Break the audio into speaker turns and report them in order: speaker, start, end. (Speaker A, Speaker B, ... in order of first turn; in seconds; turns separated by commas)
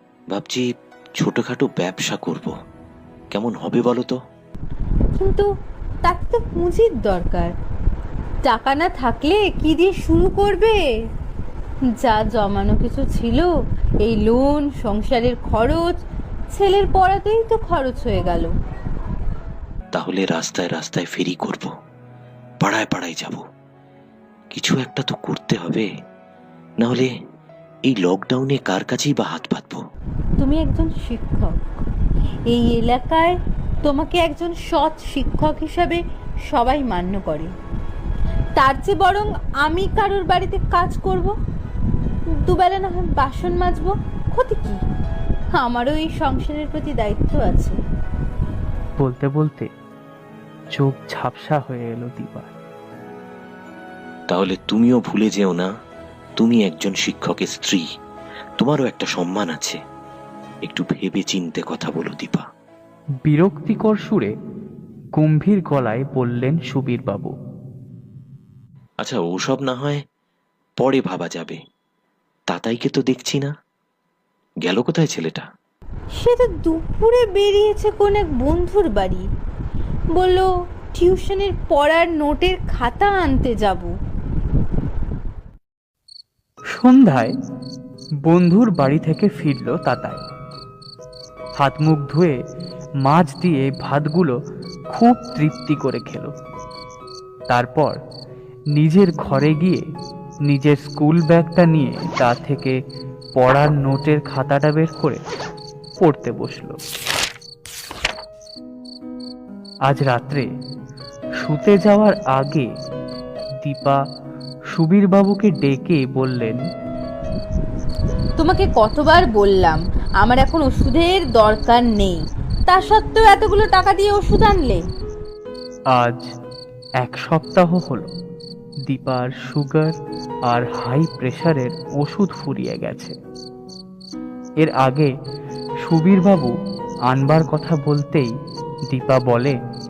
Speaker A: 0.3-0.7, Speaker A: 1.2-2.5, Speaker A: 3.3-4.2, Speaker B: 5.2-5.5, Speaker B: 6.0-7.5, Speaker B: 8.4-10.8, Speaker B: 12.0-13.5, Speaker B: 14.0-15.9, Speaker B: 16.5-18.5, Speaker A: 19.9-21.7, Speaker A: 22.6-23.4, Speaker A: 24.5-25.9, Speaker A: 26.8-27.1, Speaker A: 27.9-29.8, Speaker B: 30.4-31.6, Speaker B: 32.5-37.5, Speaker B: 38.6-41.3, Speaker B: 42.4-44.8, Speaker B: 45.5-47.8, Speaker C: 49.0-49.7, Speaker C: 50.7-52.5, Speaker A: 54.3-55.7, Speaker A: 56.4-57.8, Speaker A: 58.6-59.8, Speaker A: 60.6-62.4, Speaker C: 63.2-64.3, Speaker C: 65.2-67.3, Speaker A: 69.0-70.0, Speaker A: 70.8-71.6, Speaker A: 72.5-73.5, Speaker A: 74.6-75.5, Speaker B: 76.2-79.2, Speaker B: 80.1-83.9, Speaker C: 86.7-87.3, Speaker C: 88.3-90.2, Speaker C: 91.6-92.3, Speaker C: 93.0-94.3, Speaker C: 94.9-96.3, Speaker C: 97.5-98.0, Speaker C: 98.8-99.8, Speaker C: 100.5-102.8, Speaker C: 103.4-105.2, Speaker C: 106.0-106.8, Speaker C: 109.9-110.4, Speaker C: 111.4-112.7, Speaker C: 113.6-114.0, Speaker C: 114.7-116.6, Speaker B: 118.4-124.8, Speaker C: 125.9-126.3, Speaker C: 127.0-128.1, Speaker C: 128.9-129.9, Speaker C: 130.5-133.1, Speaker C: 134.6-135.1, Speaker C: 135.8-136.5, Speaker C: 137.1-138.3, Speaker C: 138.9-139.6